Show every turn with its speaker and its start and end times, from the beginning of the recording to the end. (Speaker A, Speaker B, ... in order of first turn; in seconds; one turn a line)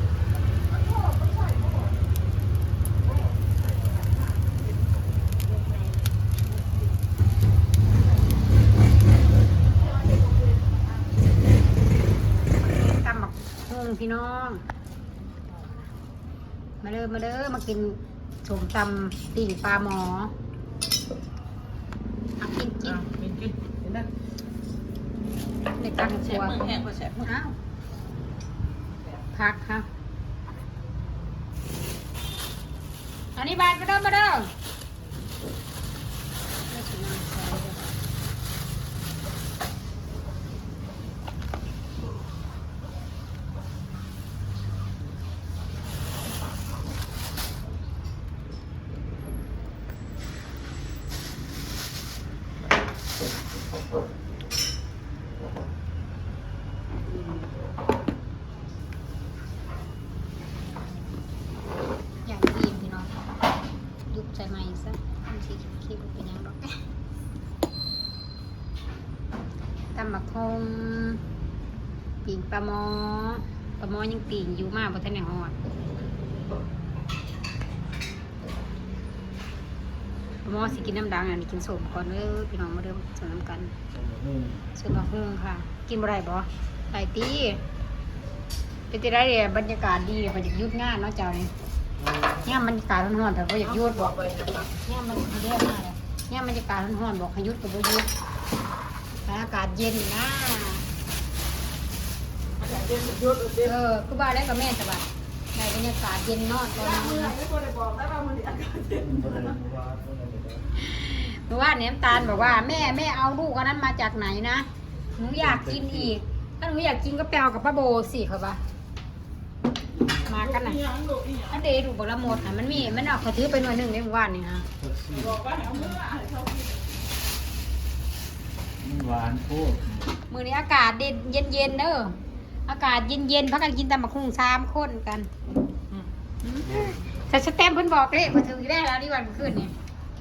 Speaker A: 10.0-10.8
Speaker B: 12.6-14.6
Speaker B: 16.8-20.3
Speaker B: 22.4-23.0
Speaker A: 22.8-24.1
Speaker B: 25.7-26.6
Speaker A: 26.1-27.3
Speaker B: 27.2-27.5
Speaker B: 29.3-29.9
Speaker B: 33.3-34.5
Speaker B: 36.7-37.9
Speaker B: 62.2-63.1
Speaker B: 64.1-66.8
Speaker B: 69.9-71.2
Speaker B: 72.2-75.5
Speaker B: 80.4-83.7
Speaker C: 83.9-84.6
Speaker B: 84.7-87.6
Speaker B: 88.9-91.5
Speaker B: 92.4-94.1
Speaker A: 93.6-94.7
Speaker B: 94.7-98.1
Speaker B: 99.2-100.8
Speaker A: 102.6-103.8
Speaker B: 103.6-107.3
Speaker A: 106.7-109.6
Speaker C: 109.0-110.6
Speaker B: 110.8-118.6
Speaker C: 115.3-116.2
Speaker A: 120.2-121.7
Speaker B: 120.2-120.8
Speaker B: 121.5-124.7
Speaker C: 122.2-123.2
Speaker C: 124.8-125.4
Speaker A: 125.1-127.0
Speaker C: 128.8-130.0
Speaker B: 130.3-135.3
Speaker B: 136.4-139.7
Speaker C: 136.5-137.0